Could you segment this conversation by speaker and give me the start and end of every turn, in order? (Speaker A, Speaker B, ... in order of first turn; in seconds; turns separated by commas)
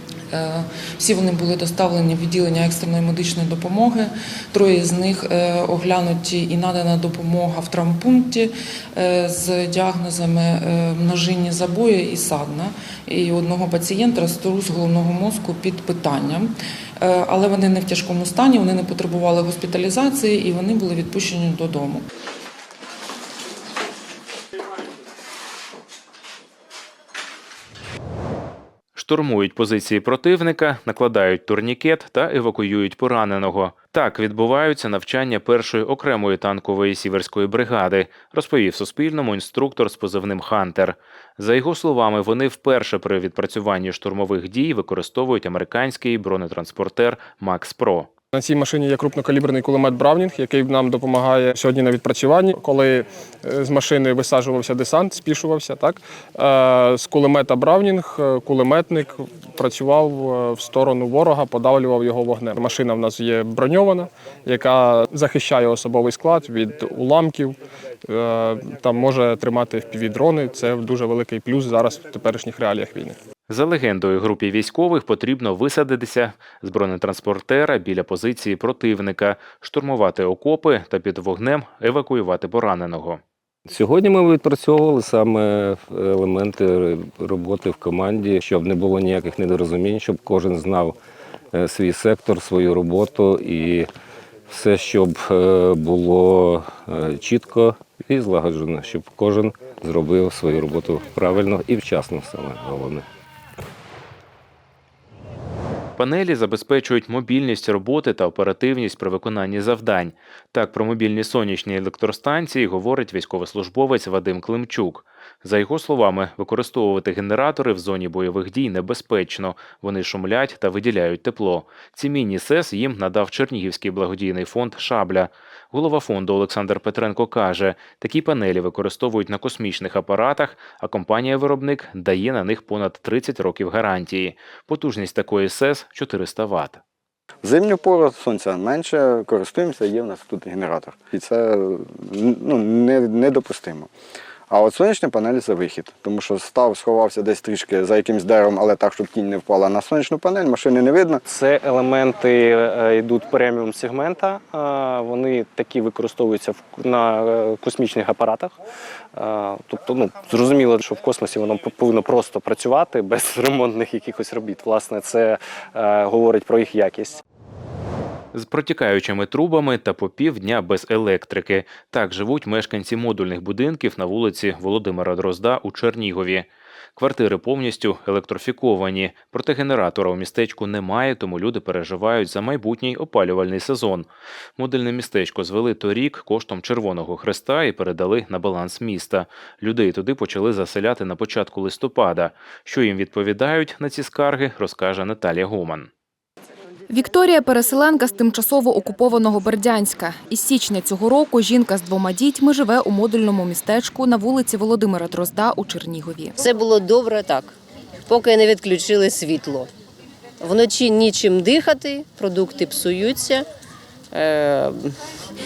Speaker A: 0.3-22.1, Speaker B: 28.9-48.1, Speaker C: 48.3-67.6, Speaker C: 68.1-73.2, Speaker B: 73.5-83.2, Speaker D: 83.7-91.0, Speaker D: 91.5-93.9, Speaker D: 94.5-103.1, Speaker B: 106.0-136.8, Speaker E: 137.4-143.9, Speaker E: 144.5-151.2, Speaker F: 151.3-158.5, Speaker F: 159.2-167.2, Speaker B: 168.3-195.9, Speaker G: 196.9-206.4, Speaker H: 206.4-207.5, Speaker H: 208.1-209.7, Speaker H: 210.4-213.4, Speaker H: 214.1-214.9